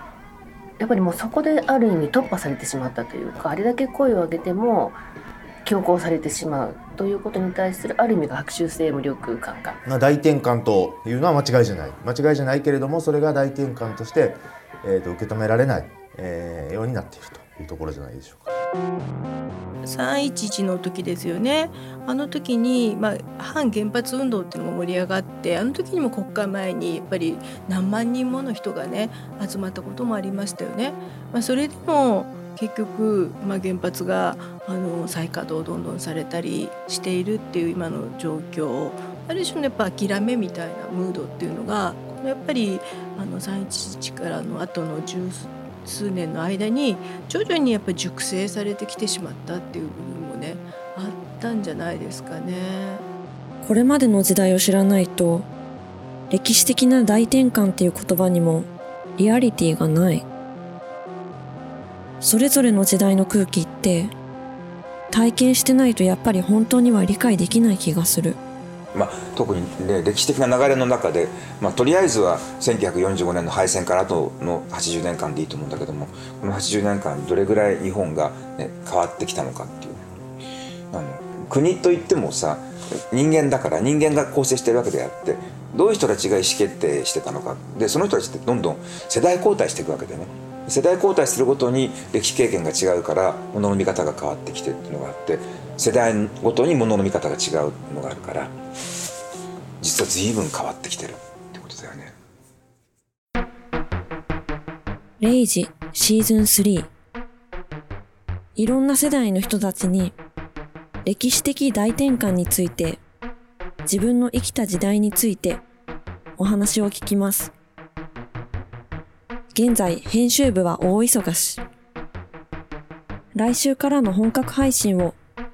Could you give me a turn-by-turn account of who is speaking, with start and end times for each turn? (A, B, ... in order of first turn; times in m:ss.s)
0:00.8-0:05.0 A
0:05.6-0:09.8 A
0:09.9-0:18.5 B
0:19.8-0:53.0 C
0:53.6-0:55.5 D
0:56.3-1:00.3 D
1:02.2-1:04.1 D
1:05.1-1:08.4 D
1:08.9-1:20.0 E
1:20.9-1:38.6 E
1:39.8-1:42.2 E
1:45.2-1:46.9 D
1:48.6-1:50.2 D
1:51.0-1:53.0 D
1:53.9-1:55.6 D
1:56.4-1:57.5 D
1:59.5-2:01.6 D
2:03.4-2:05.2 D